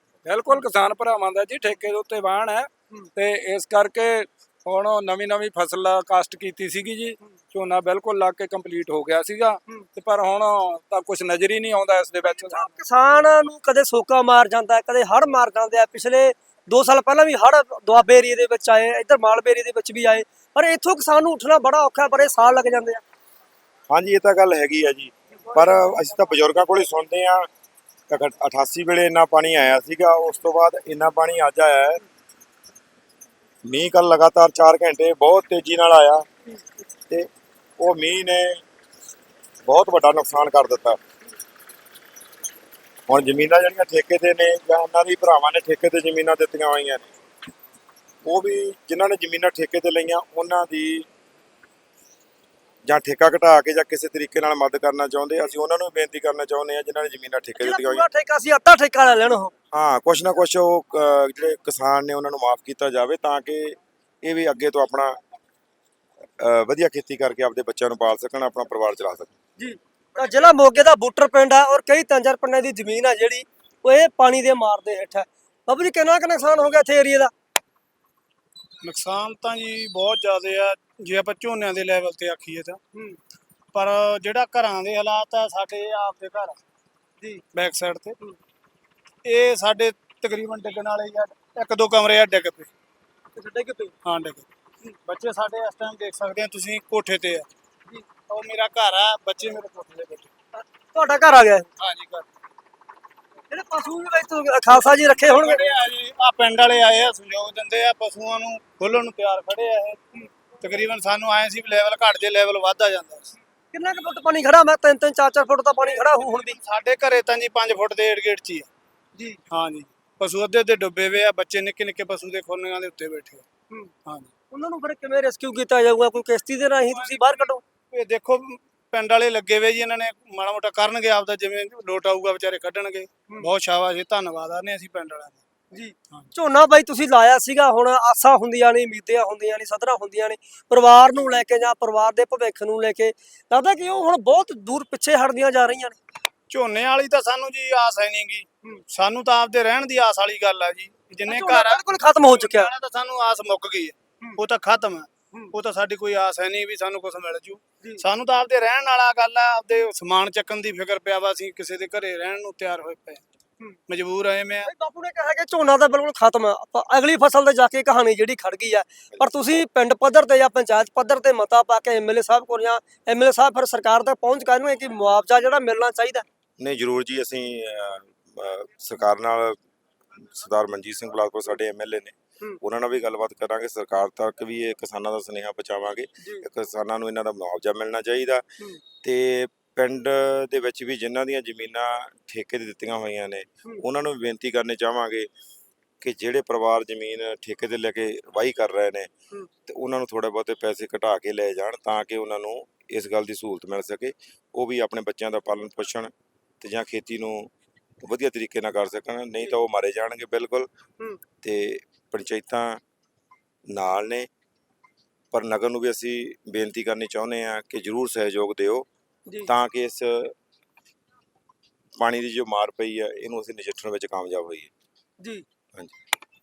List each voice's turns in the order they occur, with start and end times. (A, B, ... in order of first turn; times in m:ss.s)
0:00.2-0:12.7 A
0:12.2-0:23.0 B
0:23.9-0:27.5 C
0:28.1-0:32.0 C
0:33.6-0:36.2 C
0:37.8-0:38.6 C
0:39.6-0:41.0 C
0:43.1-0:47.1 C
0:48.2-0:51.1 C
0:52.8-0:58.0 C
0:57.6-0:59.5 B
0:59.7-1:05.2 C
1:06.4-1:09.4 C
1:09.6-1:17.3 B
1:18.8-1:22.8 D
1:22.9-1:23.2 B
1:23.7-1:26.6 D
1:27.5-1:28.2 D
1:29.2-1:32.7 D
1:33.3-1:33.9 B
1:34.0-1:34.5 D
1:35.0-1:37.5 D
1:38.3-1:40.3 D
1:40.6-1:41.7 B
1:41.8-1:42.3 D
1:43.5-1:45.7 B
1:45.2-1:50.0 D
1:50.6-1:53.3 D
1:53.7-1:56.6 B
1:55.9-1:58.7 D
1:59.2-1:59.4 B
1:59.5-2:03.4 D
2:04.5-2:07.6 B
2:06.9-2:07.2 D
2:07.9-2:15.4 D
2:15.7-2:26.0 B
2:26.5-2:43.2 D
2:31.3-2:32.7 B
2:43.9-2:44.7 D
2:44.6-2:56.2 B
2:56.6-2:59.6 C
3:00.1-3:08.5 C
3:06.2-3:06.4 B
3:09.0-3:15.3 C
3:16.0-3:19.1 C
3:19.7-3:27.5 C
3:28.0-3:30.7 C
3:31.4-3:32.8 C
3:33.7-3:34.3 C
3:35.3-3:38.9 C
3:39.4-3:40.3 C
3:42.0-3:44.7 C